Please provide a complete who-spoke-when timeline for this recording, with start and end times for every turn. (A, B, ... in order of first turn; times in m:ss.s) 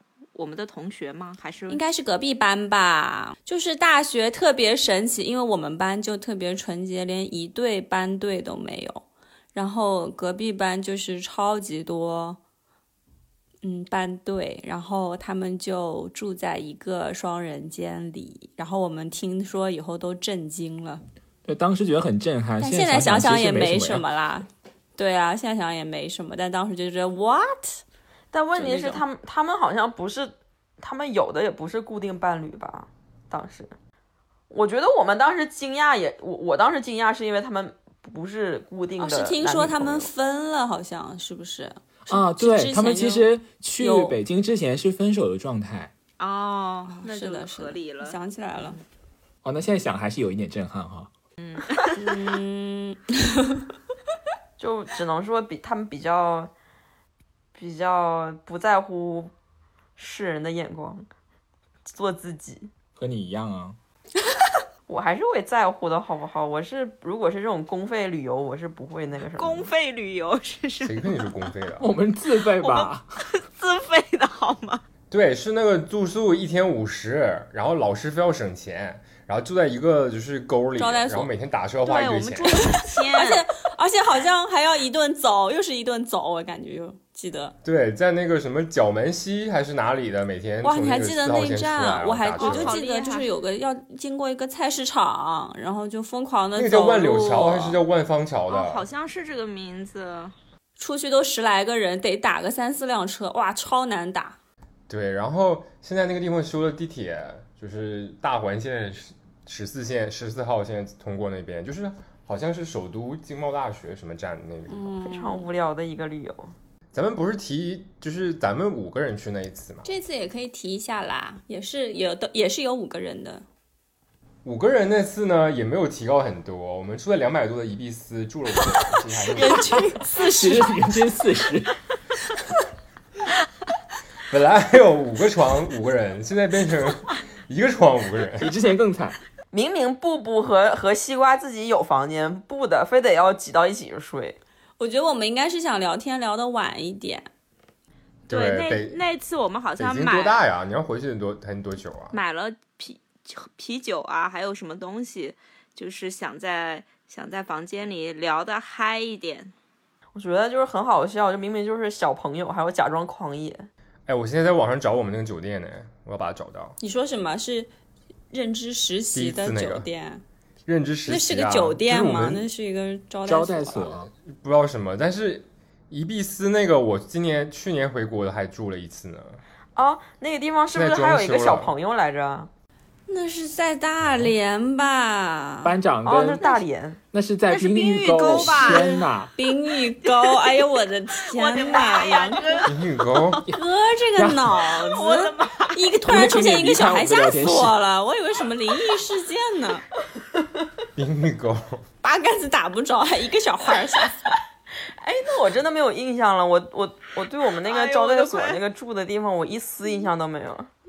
0:00.3-0:01.8 A
0:01.7-0:12.4 B
0:13.6-0:21.0 B
0:21.4-0:24.0 C
0:22.6-0:27.8 B
0:28.3-0:33.7 D
0:28.5-0:29.0 B
0:34.5-0:40.1 D
0:39.0-0:44.2 B
0:42.1-0:45.9 C
0:46.2-0:48.2 A
0:46.9-0:48.8 B
0:49.4-0:51.1 C
0:51.4-0:52.0 A
0:51.9-0:53.6 B
0:54.6-0:56.5 D
0:57.5-0:59.3 D
1:00.0-1:01.1 D
1:01.9-1:02.7 D
1:03.0-1:03.8 C
1:04.9-1:09.7 D
1:09.4-1:11.3 A
1:10.8-1:11.8 E
1:11.8-1:13.0 C
1:12.6-1:14.8 A
1:15.1-1:22.8 E
1:20.8-1:21.3 B
1:21.8-1:23.4 A
1:22.4-1:27.5 B
1:27.6-1:32.8 E
1:30.6-1:37.8 B
1:32.4-1:33.3 A
1:36.5-1:38.8 E
1:38.5-1:40.3 A
1:40.8-1:44.4 B
1:44.9-1:54.9 E
1:54.7-1:55.5 B
1:55.0-1:56.5 D
1:56.9-1:59.8 E
1:59.8-2:03.4 B
2:04.4-2:10.0 E
2:09.3-2:10.7 B
2:10.1-2:11.7 C
2:14.3-2:18.5 E
2:18.4-2:19.2 C
2:19.5-2:24.4 D
2:24.8-2:27.3 B
2:28.3-2:29.0 E
2:28.3-2:30.4 A
2:29.8-2:32.2 E
2:32.1-2:39.5 A
2:40.1-2:43.7 D
2:44.1-2:46.8 E
2:46.8-2:47.7 B
2:48.3-2:50.2 B
2:49.1-2:49.9 E
2:50.6-2:52.5 E
2:51.0-2:53.9 B
2:53.2-2:54.1 C
2:54.1-2:59.4 E
2:59.8-3:02.5 D
3:00.7-3:01.7 E
3:03.1-3:05.7 B
3:05.6-3:06.4 C
3:06.0-3:07.0 D
3:07.1-3:09.3 C
3:07.5-3:08.9 A
3:08.3-3:08.8 B
3:09.3-3:12.7 B
3:10.0-3:10.4 A
3:11.2-3:13.4 A
3:12.6-3:13.4 E
3:13.5-3:19.8 B
3:14.2-3:14.6 C
3:14.7-3:15.8 A
3:16.1-3:17.8 C
3:21.0-3:21.8 E
3:22.0-3:24.3 B
3:25.0-3:30.7 D
3:27.6-3:28.6 A